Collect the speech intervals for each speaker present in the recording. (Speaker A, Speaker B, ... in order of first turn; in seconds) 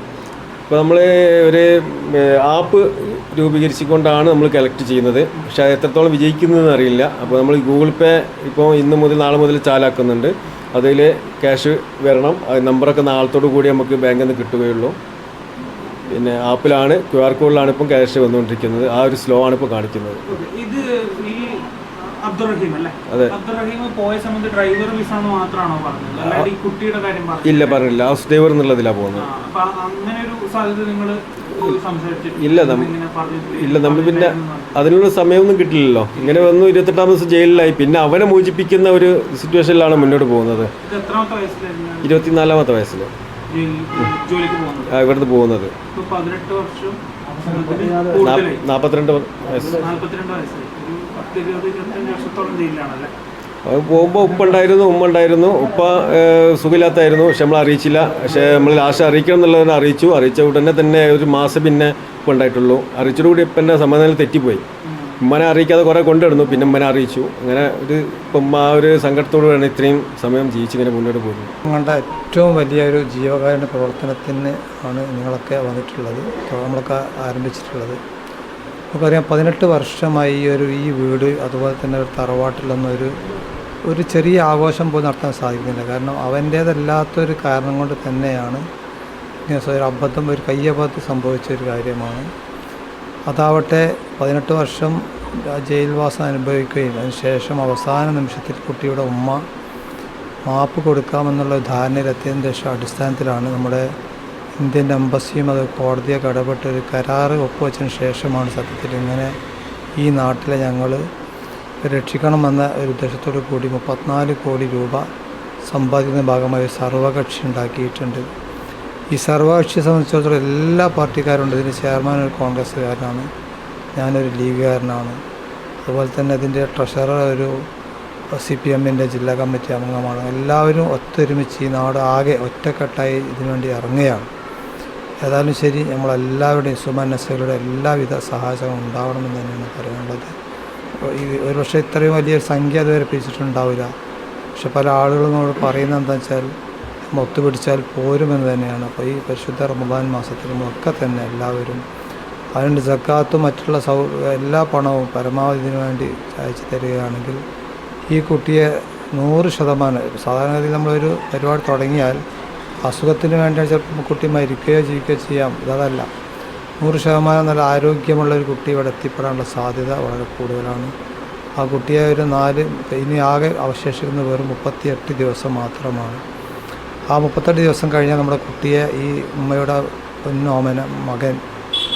Speaker A: 0.7-14.9, 16.1-20.2, 23.1-23.4, 26.2-26.5, 27.4-29.3, 32.4-32.9, 33.5-40.7, 42.0-43.1, 44.9-45.7, 48.1-49.9, 53.6-64.7, 65.2-71.5
Speaker B: 20.3-27.8, 29.2-34.9, 36.2-36.5, 40.8-42.4, 43.5-44.9, 45.9-48.6, 49.6-53.1, 64.9-65.2
Speaker C: 71.6-78.0, 78.9-83.2, 83.8-88.7, 89.5-92.3, 93.3-99.5, 100.5-103.9, 104.6-109.4, 110.0-111.0, 111.8-115.1, 115.7-118.3, 119.1-123.3, 124.0-125.2, 125.8-127.7, 128.3-134.3, 135.2-140.4, 141.0-143.9, 144.6-151.8, 152.5-157.4, 158.1-162.2, 162.8-166.1, 166.8-170.9, 171.6-176.2, 177.1-181.4